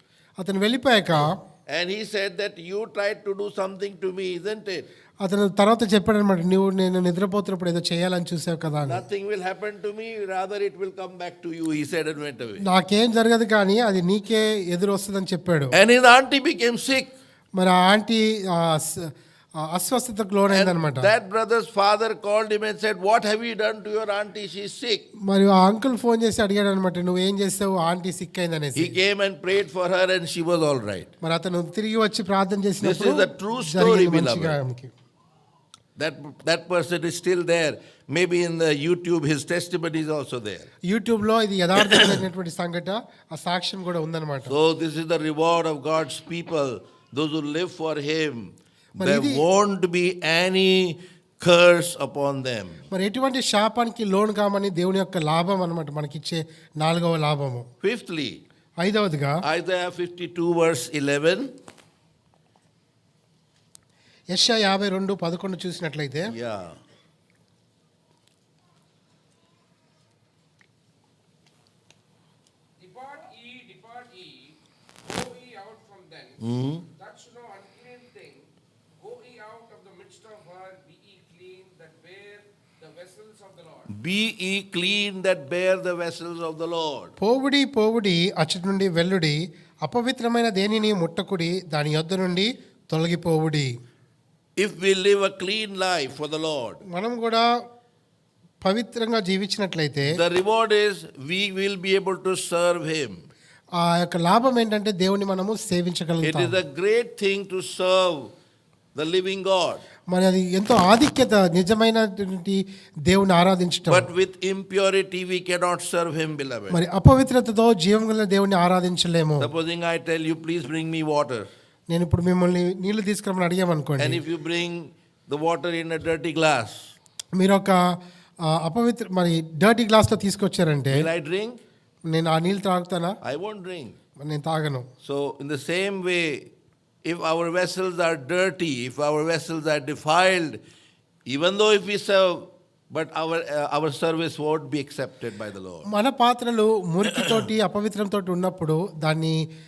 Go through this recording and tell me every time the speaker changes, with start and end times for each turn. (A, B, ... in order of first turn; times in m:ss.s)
0:00.4-0:01.4 A
0:01.7-0:04.8 B
0:05.2-0:09.0 A
0:08.8-0:12.6 B
0:12.6-0:15.7 A
0:15.7-0:17.1 B
0:17.6-0:21.1 A
0:20.5-0:25.1 B
0:25.2-0:29.0 A
0:28.7-0:31.1 B
0:31.2-0:34.9 A
0:32.8-0:34.6 B
0:36.0-0:40.7 B
0:40.9-0:44.5 A
0:41.9-0:42.2 B
0:44.4-0:52.9 B
0:49.0-0:49.4 A
0:52.9-0:57.7 A
0:57.8-0:58.4 B
0:58.8-0:59.4 A
0:59.4-1:01.5 B
1:04.3-1:06.3 A
1:06.3-1:06.8 B
1:12.8-1:23.9 C
1:16.4-1:16.8 B
1:23.9-1:27.1 B
1:27.2-1:33.7 A
1:34.6-1:36.8 B
1:36.9-1:37.5 A
1:38.6-1:40.2 A
1:40.0-1:43.3 B
1:43.8-1:46.6 A
1:46.2-1:48.3 B
1:48.9-1:49.8 B
1:50.1-1:54.1 A
1:53.9-1:56.8 B
1:56.7-1:59.5 A
1:59.4-2:01.5 B
2:01.9-2:04.2 A
2:04.0-2:06.9 B
2:07.4-2:07.8 A
2:08.4-2:11.1 A
2:10.9-2:11.6 B
2:12.1-2:13.2 A
2:13.2-2:14.0 B
2:14.2-2:14.9 A
2:15.0-2:16.5 B
2:17.0-2:20.6 B
2:21.3-2:25.9 B
2:25.9-2:29.4 A